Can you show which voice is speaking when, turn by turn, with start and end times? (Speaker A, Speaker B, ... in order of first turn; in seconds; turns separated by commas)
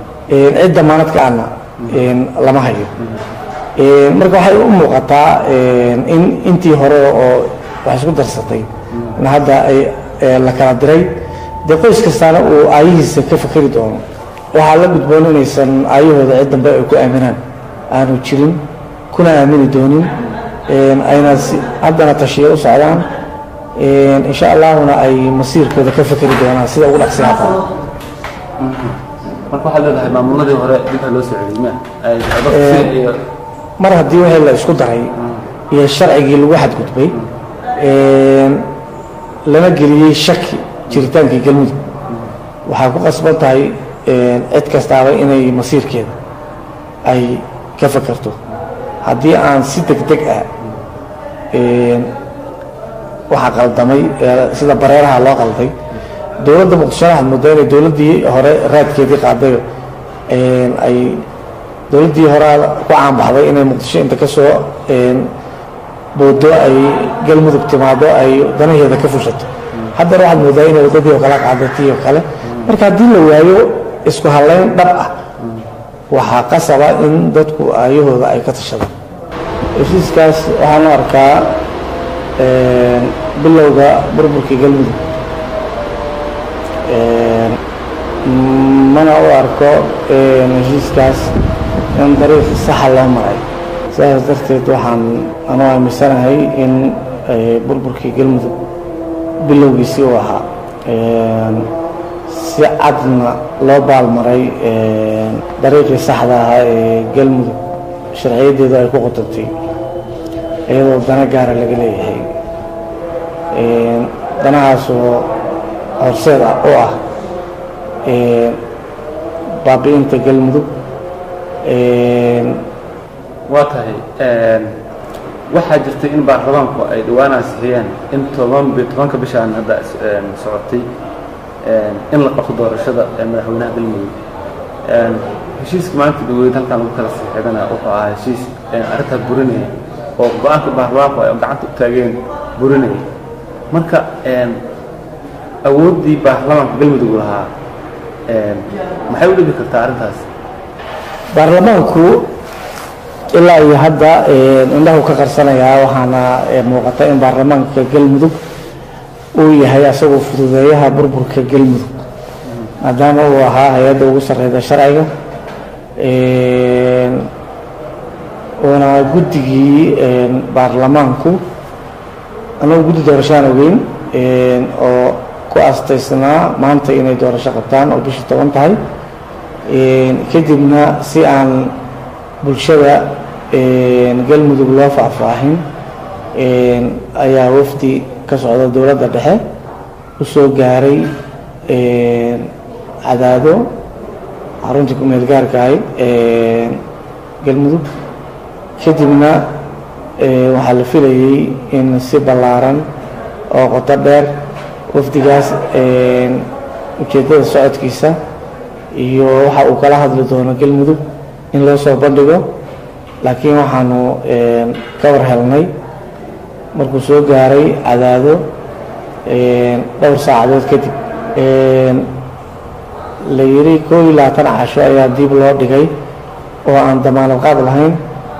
Speaker A: 0.3-2.9, Speaker A: 3.8-11.1, Speaker B: 8.9-9.2, Speaker A: 11.6-14.0, Speaker A: 14.5-17.4, Speaker A: 17.9-20.1, Speaker A: 20.7-23.1, Speaker A: 23.8-27.6, Speaker B: 28.6-29.0, Speaker B: 29.5-33.2, Speaker A: 32.5-32.9, Speaker A: 33.8-35.1, Speaker B: 35.2-35.4, Speaker A: 35.7-37.2, Speaker A: 37.8-38.7, Speaker A: 39.5-41.9, Speaker A: 42.6-46.1, Speaker A: 47.0-48.4, Speaker A: 49.0-50.5, Speaker A: 51.5-52.1, Speaker A: 53.3-55.8, Speaker A: 56.4-59.6, Speaker A: 60.3-61.2, Speaker A: 61.9-65.3, Speaker A: 66.1-75.2, Speaker A: 76.1-78.9, Speaker A: 79.7-81.7, Speaker A: 82.4-85.0, Speaker A: 86.9-87.6, Speaker A: 88.2-91.3, Speaker A: 91.9-98.5, Speaker A: 99.4-101.7, Speaker A: 102.3-107.6, Speaker A: 108.1-109.5, Speaker A: 110.7-112.3, Speaker A: 113.5-115.3, Speaker A: 116.0-117.0, Speaker A: 118.0-118.6, Speaker A: 119.6-120.7, Speaker A: 121.6-122.7, Speaker B: 123.5-124.8, Speaker B: 125.5-130.9, Speaker B: 131.6-134.2, Speaker B: 134.9-143.0, Speaker B: 143.7-144.6, Speaker B: 145.6-147.5, Speaker B: 148.3-150.2, Speaker A: 151.3-152.3, Speaker A: 153.3-158.4, Speaker A: 159.3-162.0, Speaker A: 162.8-165.1, Speaker A: 166.0-167.3, Speaker A: 168.6-171.4, Speaker A: 172.6-178.8, Speaker A: 179.7-181.8, Speaker A: 182.4-185.6, Speaker A: 186.3-189.4, Speaker A: 190.2-191.1, Speaker A: 191.7-192.5, Speaker A: 193.0-193.7, Speaker A: 194.6-196.8, Speaker A: 197.4-197.8, Speaker A: 198.8-199.5, Speaker A: 200.2-202.8, Speaker A: 203.5-208.2, Speaker A: 208.9-211.0, Speaker A: 211.5-212.5, Speaker A: 213.2-215.7, Speaker A: 216.7-218.4, Speaker A: 219.2-222.1, Speaker A: 223.3-225.9, Speaker A: 226.7-228.0